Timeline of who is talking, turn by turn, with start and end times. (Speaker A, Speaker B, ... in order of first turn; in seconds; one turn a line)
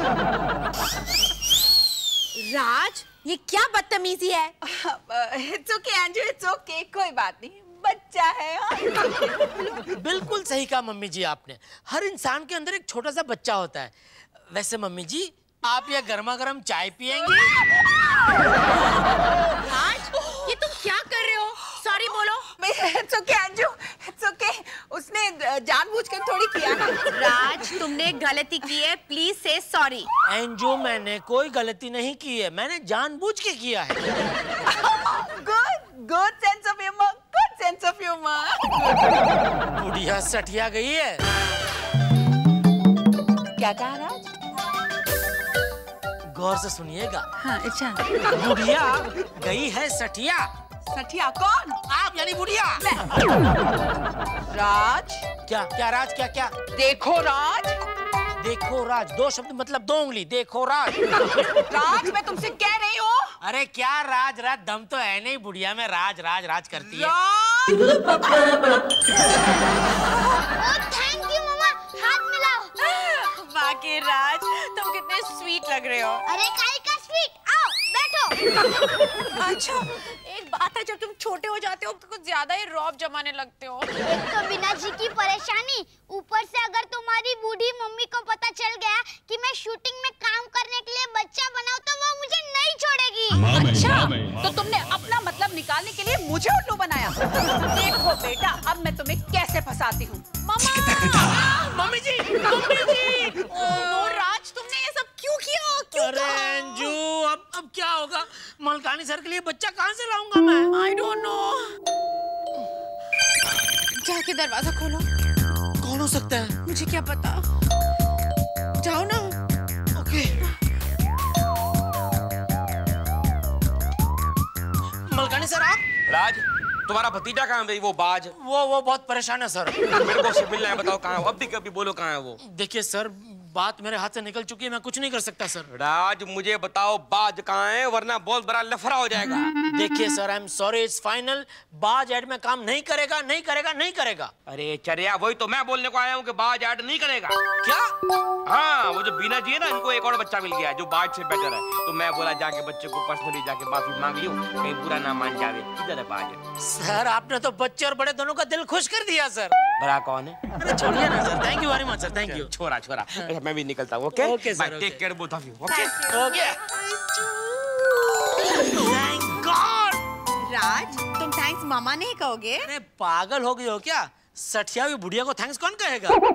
Speaker A: 2.4-4.5
Speaker B: 4.6-9.9
Speaker C: 10.0-13.9
Speaker C: 14.5-17.4
Speaker A: 19.4-22.5
Speaker B: 22.5-27.8
Speaker A: 27.1-30.1
Speaker C: 30.2-34.0
Speaker B: 34.6-39.1
Speaker C: 39.7-41.2
Speaker B: 43.5-44.3
Speaker C: 46.3-47.2
Speaker B: 47.4-48.0
Speaker C: 48.3-50.5
Speaker B: 50.9-51.8
Speaker C: 51.9-52.9
Speaker B: 52.8-53.6
Speaker B: 54.5-55.2
Speaker C: 55.5-56.5
Speaker B: 56.7-57.8
Speaker C: 58.4-61.5
Speaker B: 61.7-63.3
Speaker C: 63.4-67.1
Speaker B: 66.8-68.3
Speaker D: 70.6-72.7
Speaker A: 72.8-76.3
Speaker D: 76.2-78.4
Speaker A: 79.4-83.9
Speaker D: 84.0-93.5
Speaker B: 93.4-100.2
Speaker A: 100.5-106.9
Speaker C: 100.8-103.8
Speaker C: 105.9-110.7
Speaker A: 110.7-111.7
Speaker A: 114.0-115.0
Speaker C: 115.8-116.6
Speaker A: 116.7-117.4
Speaker A: 118.8-119.4
Speaker C: 120.0-120.4
Speaker C: 125.1-125.8
Speaker E: 126.1-128.3
Speaker C: 128.3-129.8
Speaker E: 129.9-132.4
Speaker C: 132.4-135.7
Speaker E: 135.7-139.5
Speaker C: 139.7-144.3
Speaker E: 144.5-147.4
Speaker C: 147.6-147.9
Speaker E: 148.4-156.4
Speaker C: 156.6-159.6
Speaker E: 159.8-160.4
Speaker C: 160.5-162.5
Speaker E: 162.2-166.2
Speaker C: 164.1-165.0
Speaker A: 165.7-168.2
Speaker C: 166.1-166.6
Speaker C: 168.7-170.0
Speaker A: 170.4-172.7
Speaker C: 172.6-176.2